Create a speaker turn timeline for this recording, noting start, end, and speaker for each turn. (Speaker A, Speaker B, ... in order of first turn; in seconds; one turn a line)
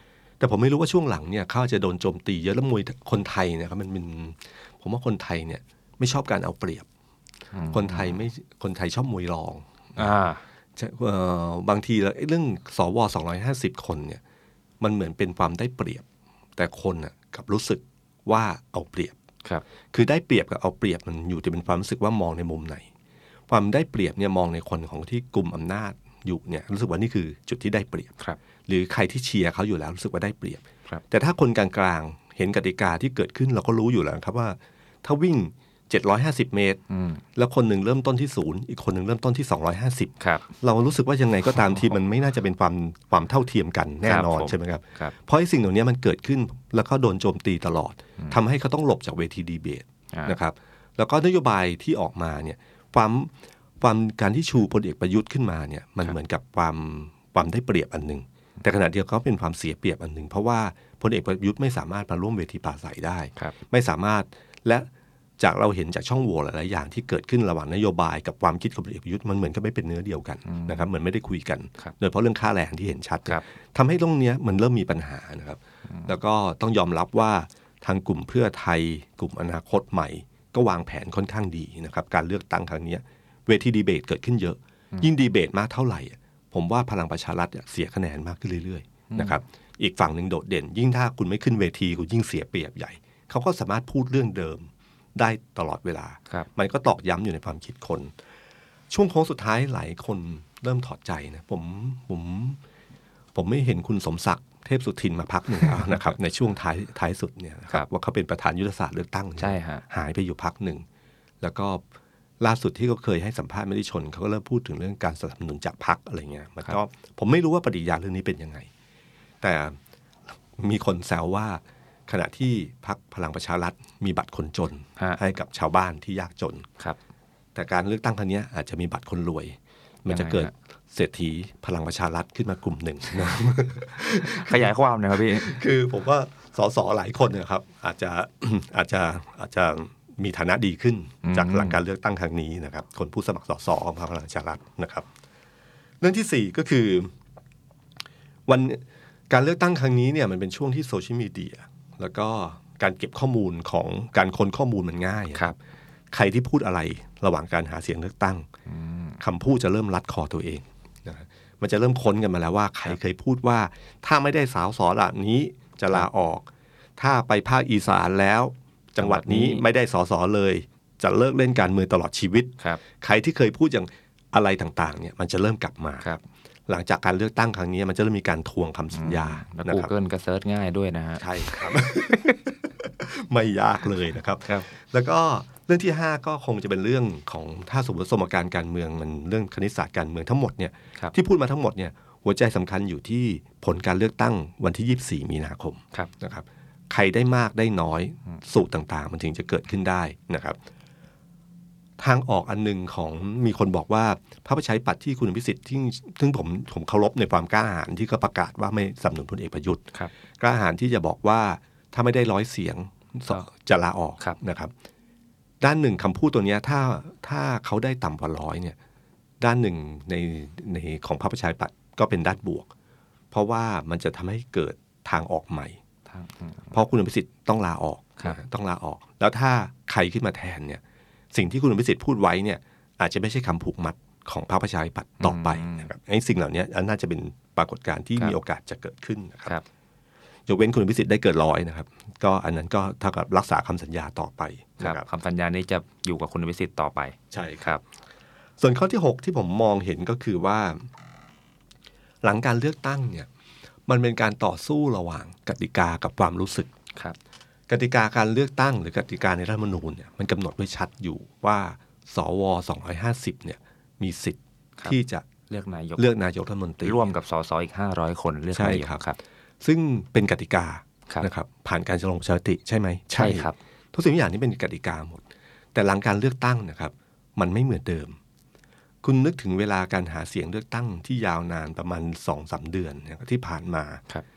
Speaker A: 0.4-6.9
Speaker B: 7.5-8.2
Speaker A: 7.7-10.1
Speaker B: 10.0-10.4
Speaker A: 10.8-14.2
Speaker A: 14.8-16.0
Speaker A: 16.6-19.2
Speaker A: 19.9-22.9
Speaker A: 23.5-28.1
Speaker A: 28.7-36.8
Speaker B: 36.9-37.2
Speaker A: 37.4-64.9
Speaker B: 40.2-40.5
Speaker B: 44.0-45.1
Speaker A: 65.4-98.1
Speaker B: 70.5-70.9
Speaker B: 89.1-89.4
Speaker A: 98.9-102.6
Speaker A: 103.3-110.8
Speaker B: 109.4-109.8
Speaker A: 111.4-111.8
Speaker A: 112.4-118.7
Speaker A: 119.4-119.8
Speaker A: 120.6-126.7
Speaker A: 127.5-145.1
Speaker B: 130.1-130.5
Speaker B: 134.3-135.6
Speaker B: 141.2-141.8
Speaker A: 146.0-147.1
Speaker A: 148.5-155.5
Speaker A: 156.1-158.5
Speaker B: 158.7-159.2
Speaker A: 159.2-176.1
Speaker B: 169.0-169.6
Speaker A: 176.7-179.9
Speaker B: 178.9-181.8
Speaker A: 181.2-200.6
Speaker A: 202.0-209.8
Speaker A: 210.4-214.7
Speaker A: 215.6-218.8
Speaker A: 219.4-222.7
Speaker A: 223.3-225.8
Speaker B: 226.1-226.7
Speaker A: 226.7-230.8
Speaker A: 231.3-239.6
Speaker B: 235.2-235.9
Speaker A: 240.5-245.1
Speaker B: 244.8-247.8
Speaker A: 247.3-247.7
Speaker A: 248.6-250.9
Speaker A: 252.2-253.3
Speaker A: 253.9-256.7
Speaker A: 257.7-265.3
Speaker B: 265.5-266.1
Speaker A: 266.0-267.1
Speaker B: 266.8-269.2
Speaker A: 268.5-269.1
Speaker A: 269.6-275.2
Speaker B: 273.1-273.6
Speaker A: 275.8-278.2
Speaker A: 279.0-284.0